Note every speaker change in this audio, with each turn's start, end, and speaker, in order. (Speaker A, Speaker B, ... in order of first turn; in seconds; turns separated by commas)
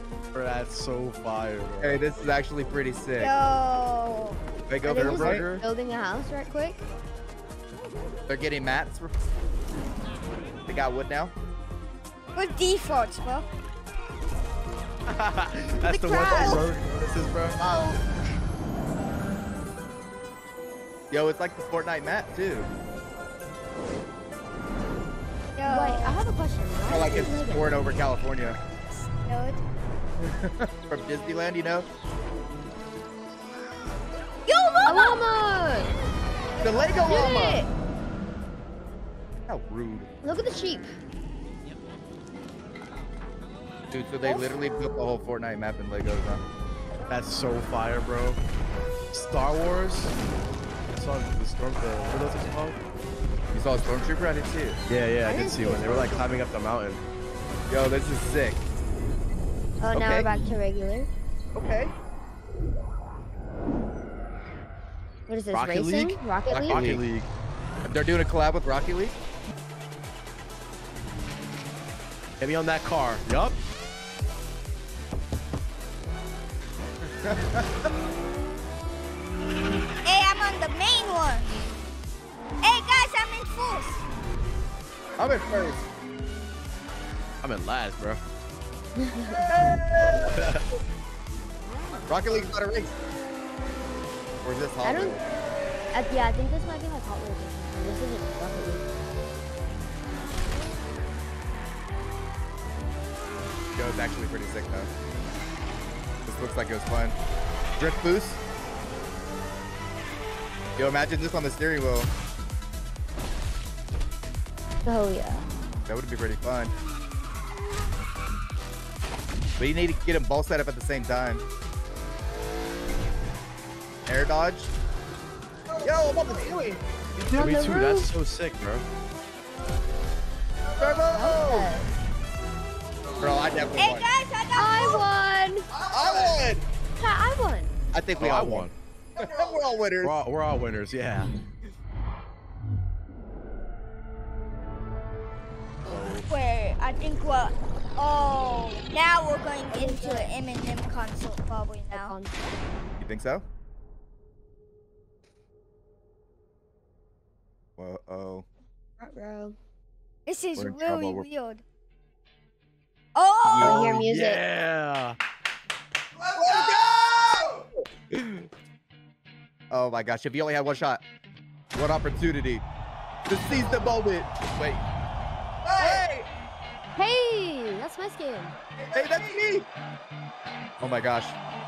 Speaker A: 0.3-2.0, Speaker B: 1.8-3.3, Speaker C: 3.2-4.4, Speaker B: 4.7-5.4, Speaker D: 4.8-6.8, Speaker A: 4.9-5.6, Speaker B: 8.3-9.2, Speaker B: 10.7-11.3, Speaker C: 12.3-13.5, Speaker A: 15.1-17.6, Speaker C: 15.8-16.6, Speaker D: 17.6-18.0, Speaker B: 21.1-22.7, Speaker C: 25.5-26.2, Speaker D: 25.6-27.9, Speaker B: 26.9-28.6, Speaker C: 29.2-29.6, Speaker B: 30.2-31.9, Speaker C: 34.5-35.2, Speaker D: 34.8-35.9, Speaker B: 36.6-37.6, Speaker D: 37.1-37.7, Speaker B: 39.5-40.1, Speaker D: 40.2-40.9, Speaker B: 43.9-46.4, Speaker D: 44.2-44.6, Speaker A: 47.1-48.4, Speaker A: 49.1-50.2, Speaker A: 50.9-52.8, Speaker B: 53.5-54.8, Speaker A: 54.9-57.0, Speaker D: 55.2-56.3, Speaker B: 57.7-58.6, Speaker D: 59.8-61.1, Speaker B: 59.9-60.3, Speaker B: 61.5-61.9, Speaker D: 65.3-66.9, Speaker A: 65.5-67.3, Speaker B: 66.5-67.0, Speaker B: 67.8-69.2, Speaker A: 72.4-73.5, Speaker B: 77.2-77.7, Speaker C: 80.0-81.5, Speaker C: 82.6-84.0, Speaker B: 85.2-85.8, Speaker A: 87.4-88.2, Speaker D: 89.0-89.5, Speaker B: 89.4-90.5, Speaker A: 90.3-90.6, Speaker B: 92.1-92.9, Speaker B: 94.4-95.2, Speaker D: 94.8-95.2, Speaker D: 95.9-98.9, Speaker B: 103.7-104.9, Speaker B: 106.2-107.1, Speaker B: 107.8-108.4, Speaker B: 110.8-112.1, Speaker D: 114.8-115.5, Speaker B: 115.9-116.7, Speaker B: 119.6-121.4, Speaker B: 124.1-124.7, Speaker B: 125.8-126.8, Speaker D: 127.2-128.1, Speaker A: 127.2-128.8, Speaker B: 130.8-131.7, Speaker D: 131.1-131.9, Speaker B: 133.2-134.1, Speaker C: 133.8-135.1, Speaker D: 134.6-135.7, Speaker B: 135.8-136.6, Speaker D: 137.0-137.7, Speaker B: 137.9-140.1, Speaker A: 138.2-138.7, Speaker A: 140.0-141.3, Speaker A: 145.9-146.2, Speaker C: 146.2-152.2, Speaker D: 149.7-150.3, Speaker D: 151.9-152.3, Speaker B: 153.0-153.4, Speaker B: 157.8-158.4, Speaker D: 159.0-159.6, Speaker C: 160.2-161.6, Speaker B: 160.6-161.2, Speaker C: 163.1-163.8, Speaker B: 163.4-164.0, Speaker D: 163.6-164.4, Speaker A: 163.7-165.2, Speaker B: 166.2-167.6, Speaker B: 169.7-171.0, Speaker B: 171.7-172.6, Speaker B: 173.3-174.8, Speaker B: 175.6-176.3, Speaker D: 176.9-178.6, Speaker B: 178.8-179.7, Speaker B: 180.8-181.3